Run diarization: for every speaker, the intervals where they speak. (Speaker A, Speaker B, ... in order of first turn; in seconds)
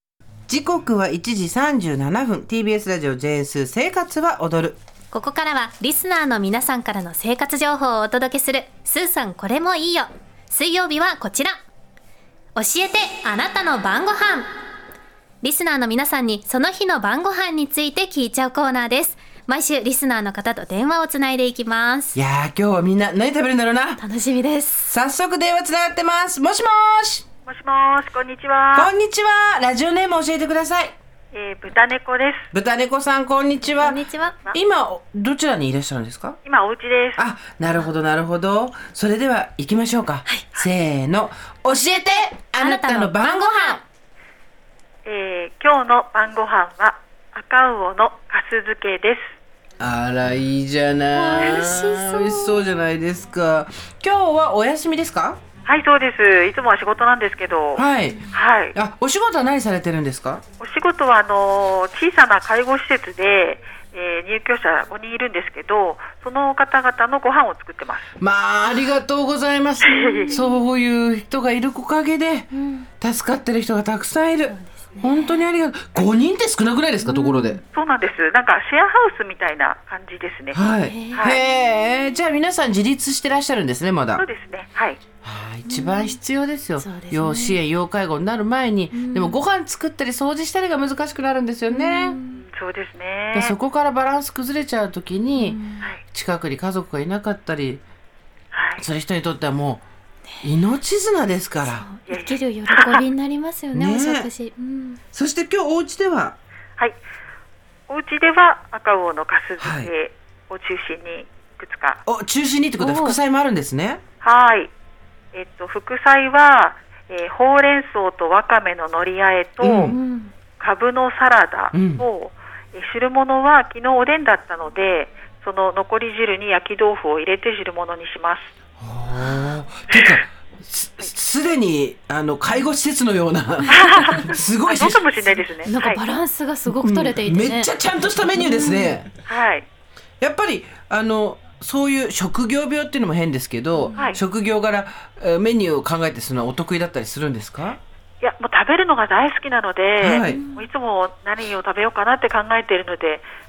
Speaker A: 0.5-4.8, 22.1-24.0, 24.9-27.2, 28.7-30.9, 32.5-36.4, 37.2-43.8, 49.8-55.4, 57.8-60.4, 68.2-77.6, 80.5-84.2, 85.2-92.2, 93.3-95.6, 96.1-97.8, 98.8-99.8, 100.4-101.9, 103.7-104.3, 105.1-106.4, 109.6-109.9, 112.1-114.0, 119.6-120.0, 121.7-122.0, 128.8-135.0, 136.7-139.1, 140.2-147.8, 150.0-150.4
Speaker B: 5.1-11.6, 12.6-14.5, 15.4-22.2, 24.0-24.9, 33.8-34.4, 40.3-40.5, 42.6-43.8, 51.1-52.8, 69.9-70.5, 72.5-72.9, 74.5-75.5, 77.0-77.6, 80.9-81.2, 85.7-86.2, 86.8-87.6, 88.9-89.4, 91.7-92.4, 95.3-95.9, 101.7-105.0, 112.8-113.2, 119.9-120.3, 135.6-137.7, 138.3-139.0, 143.8-144.2, 150.2-150.7
Speaker C: 27.4-28.9, 31.3-32.5, 36.4-37.2, 45.0-49.3, 55.6-58.8, 60.6-68.1, 69.8-70.4, 77.7-81.4, 84.2-85.0, 92.3-93.5, 98.5-98.8, 102.1-103.0, 107.9-112.0, 114.2-114.7, 115.3-120.0, 120.6-128.5, 129.9-130.2, 133.7-136.0, 139.2-139.7, 148.2-153.2